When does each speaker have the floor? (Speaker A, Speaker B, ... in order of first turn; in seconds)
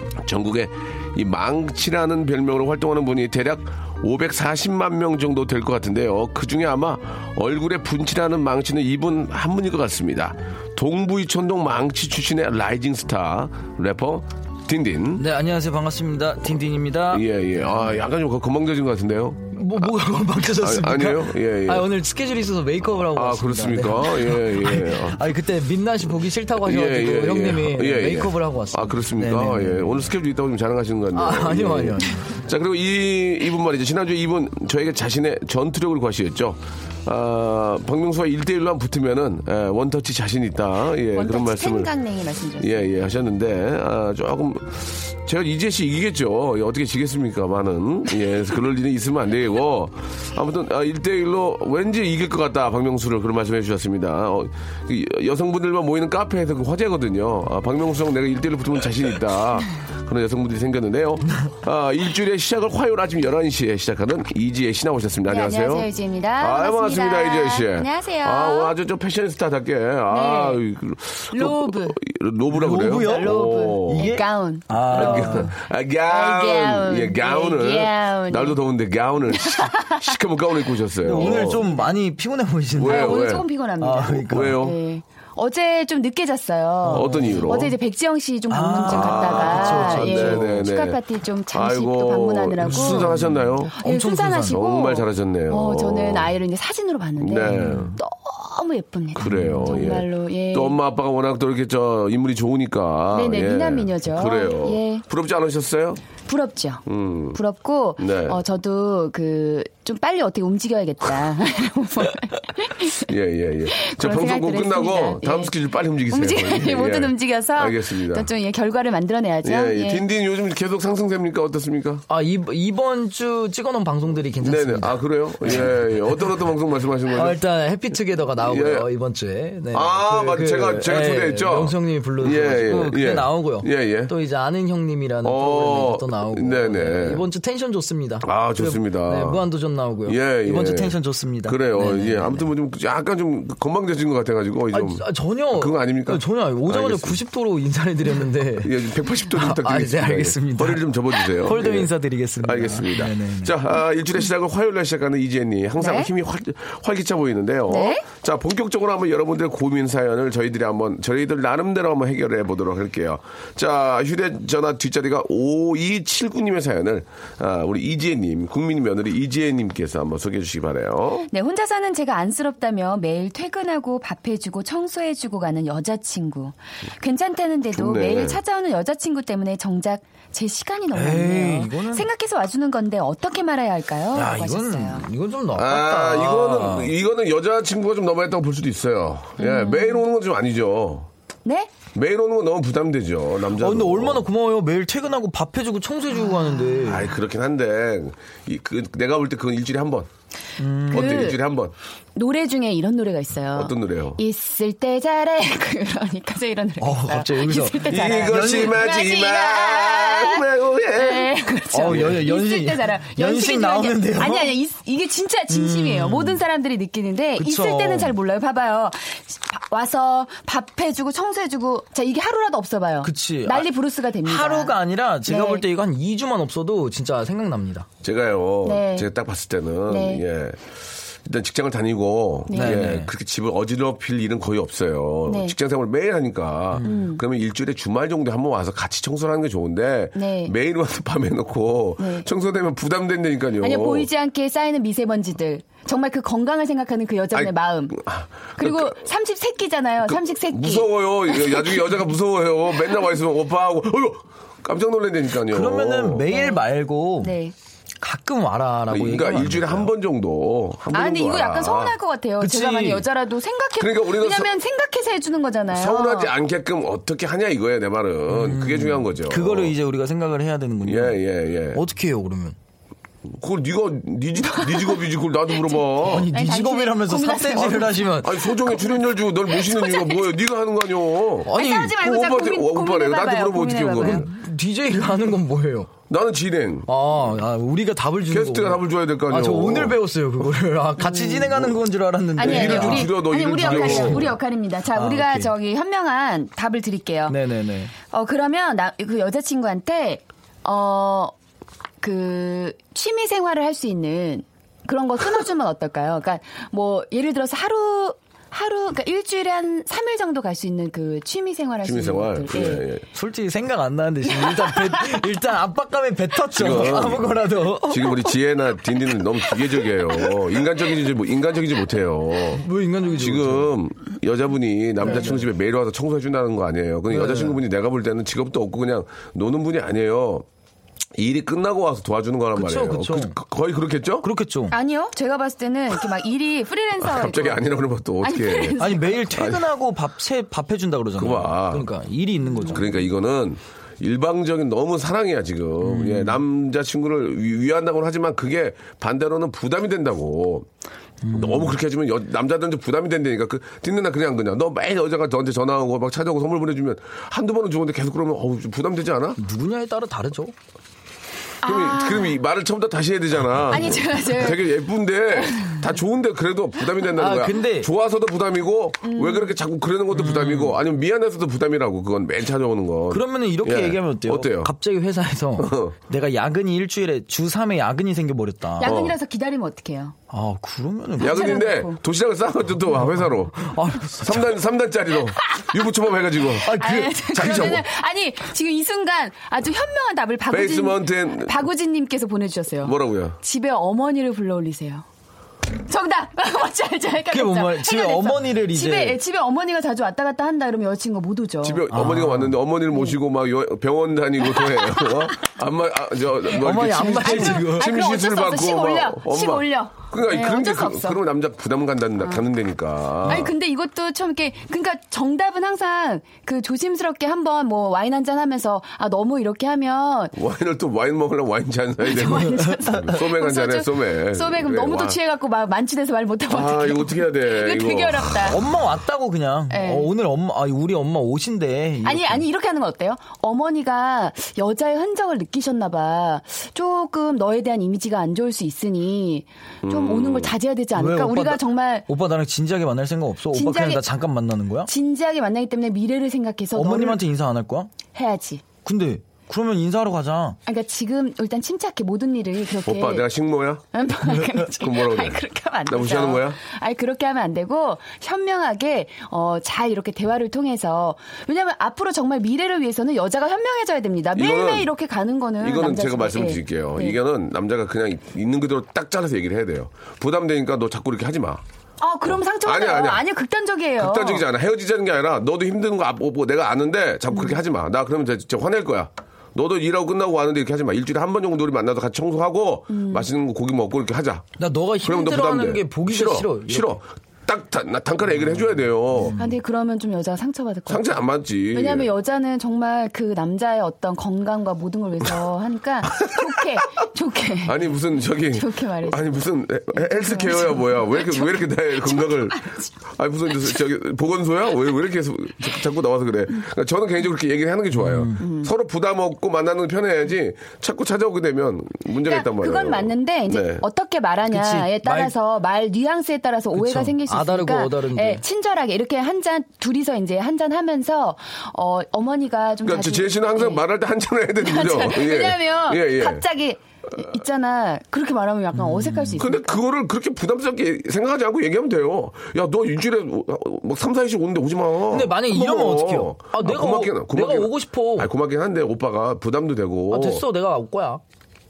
Speaker A: 0.2-15.2, 17.1-21.9, 23.1-25.2, 26.6-41.9, 42.6-65.9, 66.4-74.2, 74.9-81.6, 82.8-83.5, 84.2-84.8, 86.9-87.7, 88.8-91.0, 91.5-93.8, 94.4-96.3, 97.2-98.0, 99.2-106.0, 106.8-107.4, 108.0-108.4, 113.0-118.3, 119.4-122.0, 124.4-127.4, 128.4-128.9, 129.7-134.1, 135.2-137.2, 138.2-139.4, 140.0-147.2, 148.6-171.3, 177.7-178.4, 185.5-191.1, 191.9-194.2, 196.8-200.1, 200.9-201.7, 203.5-204.2, 207.8-212.2, 228.0-244.1, 247.3-249.0, 250.0-256.3, 258.9-261.9, 263.8-264.5, 265.7-269.7, 270.8-271.8, 273.3-276.3, 277.6-284.3, 286.1-286.9, 288.3-290.0, 291.5-291.8, 292.4-294.3, 311.8-313.0, 316.5-330.4, 331.1-334.3, 337.0-339.7, 341.2-341.9, 342.7-350.7, 351.3-359.4, 361.6-374.7, 375.6-375.9, 378.8-379.1, 381.2-387.8, 390.5-391.6, 392.8-393.4, 401.6-413.5, 420.3-425.2, 426.5-428.5, 439.8-440.5, 452.8-453.8, 454.6-456.6, 464.3-464.9, 465.6-471.6, 472.6-473.2, 474.0-484.4, 485.0-489.4, 490.9-492.1, 496.2-496.5, 497.6-513.8, 522.8-526.4, 529.4-540.4
Speaker B: 15.2-17.2, 19.5-30.1, 31.1-32.4, 72.5-75.5, 81.0-84.6, 86.8-87.5, 88.5-90.6, 92.6-94.6, 97.5-98.0, 99.2-100.0, 122.1-126.2, 127.1-142.5, 144.7-153.5, 180.9-182.1, 184.1-186.9, 193.6-197.1, 200.6-201.3, 206.8-208.8, 211.7-214.5, 215.5-216.4, 217.4-218.2, 223.0-223.7, 224.2-227.9, 232.5-233.1, 255.4-257.4, 258.0-259.9, 262.4-263.1, 268.3-271.2, 271.7-272.6, 276.0-278.4, 281.4-282.0, 284.0-285.9, 286.9-294.4, 294.9-295.5, 297.3-297.9, 313.1-318.3, 322.6-323.7, 325.0-325.5, 327.1-327.6, 332.5-333.4, 334.2-334.8, 338.8-343.1, 345.8-346.4, 351.2-351.8, 359.4-360.5, 367.1-367.9, 370.1-370.8, 373.1-379.0, 380.3-381.6, 383.1-384.5, 386.6-387.7, 397.3-399.2, 401.9-402.6, 406.5-407.9, 422.2-422.8, 428.4-432.4, 440.9-444.9, 446.7-447.9, 448.8-450.6, 484.6-487.0, 489.1-489.5, 507.9-508.4, 514.5-515.3, 516.8-518.4, 528.7-529.5, 535.1-538.3, 540.1-541.2
Speaker C: 41.1-43.0, 65.3-68.7, 70.1-70.6, 71.3-72.0, 72.9-75.5, 76.1-78.6, 79.3-80.1, 81.1-82.0, 82.8-93.2, 93.7-100.8, 103.1-105.0, 106.3-113.1, 113.7-115.5, 116.1-120.0, 155.8-156.1, 157.7-158.0, 171.3-185.1, 189.4-190.0, 191.4-191.7, 196.2-196.8, 200.9-201.4, 202.2-225.6, 228.6-229.1, 229.9-230.2, 232.5-232.9, 235.3-235.5, 236.8-237.2, 240.1-240.5, 242.0-242.3, 243.6-248.0, 248.6-251.8, 256.3-256.6, 257.2-257.5, 260.9-266.3, 274.4-275.0, 275.5-278.0, 278.6-279.0, 279.5-280.3, 281.5-284.3, 291.0-291.5, 292.4-297.4, 298.0-301.3, 302.0-312.9, 314.4-314.9, 334.7-339.1, 342.4-342.8, 361.6-362.4, 363.7-364.7, 365.3-365.8, 369.0-369.5, 378.8-380.1, 381.2-382.0, 385.4-385.8, 386.4-395.1, 395.8-401.8, 404.5-405.2, 406.9-411.2, 412.2-412.4, 413.2-420.3, 422.0-428.6, 429.7-430.1, 432.0-442.1, 443.5-444.0, 444.9-447.2, 448.1-448.6, 450.6-453.2, 453.9-467.2, 472.0-474.4, 482.9-483.3, 489.4-491.2, 491.7-497.8, 498.5-499.2, 499.9-502.9, 508.4-508.7, 512.2-523.8, 524.6-529.7